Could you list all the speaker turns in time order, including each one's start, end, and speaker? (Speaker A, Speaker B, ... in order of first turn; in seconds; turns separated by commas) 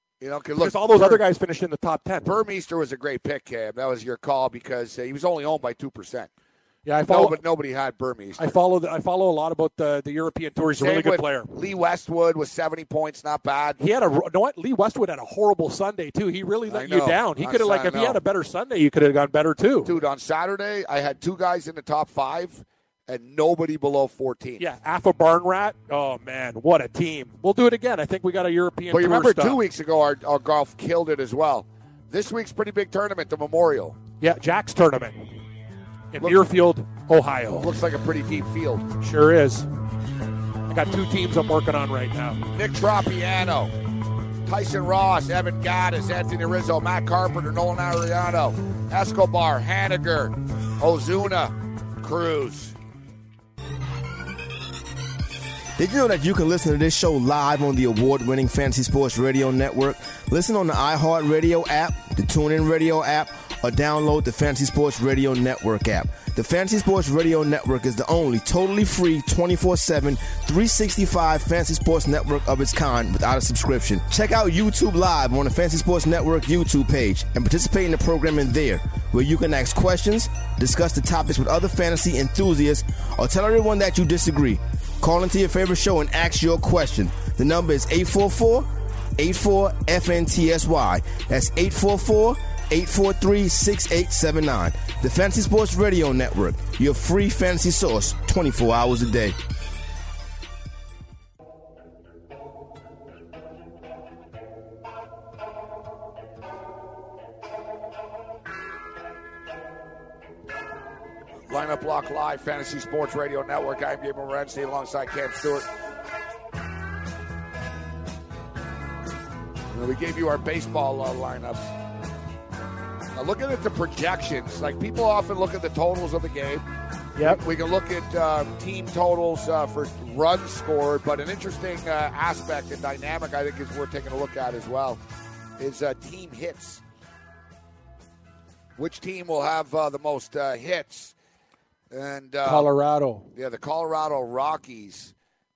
Speaker A: 0.2-1.2, Speaker B: 0.6-2.3, Speaker A: 2.2-6.3, Speaker B: 6.8-7.4, Speaker A: 7.1-8.5, Speaker B: 8.4-11.5, Speaker A: 10.8-13.8, Speaker B: 13.8-19.9, Speaker A: 16.7-18.2, Speaker A: 19.9-24.6, Speaker B: 24.6-29.6, Speaker A: 28.9-34.0, Speaker B: 34.2-35.4, Speaker B: 36.1-37.7, Speaker A: 37.6-38.9, Speaker B: 39.0-39.7, Speaker B: 40.7-42.5, Speaker A: 42.5-43.7, Speaker A: 44.5-52.8, Speaker C: 55.8-99.4, Speaker A: 111.5-115.7, Speaker A: 119.7-121.7, Speaker A: 123.1-126.6, Speaker B: 127.2-127.4, Speaker A: 127.2-135.0, Speaker A: 135.6-136.8, Speaker A: 138.8-141.1, Speaker A: 141.9-142.7, Speaker B: 142.4-143.3, Speaker A: 143.3-145.1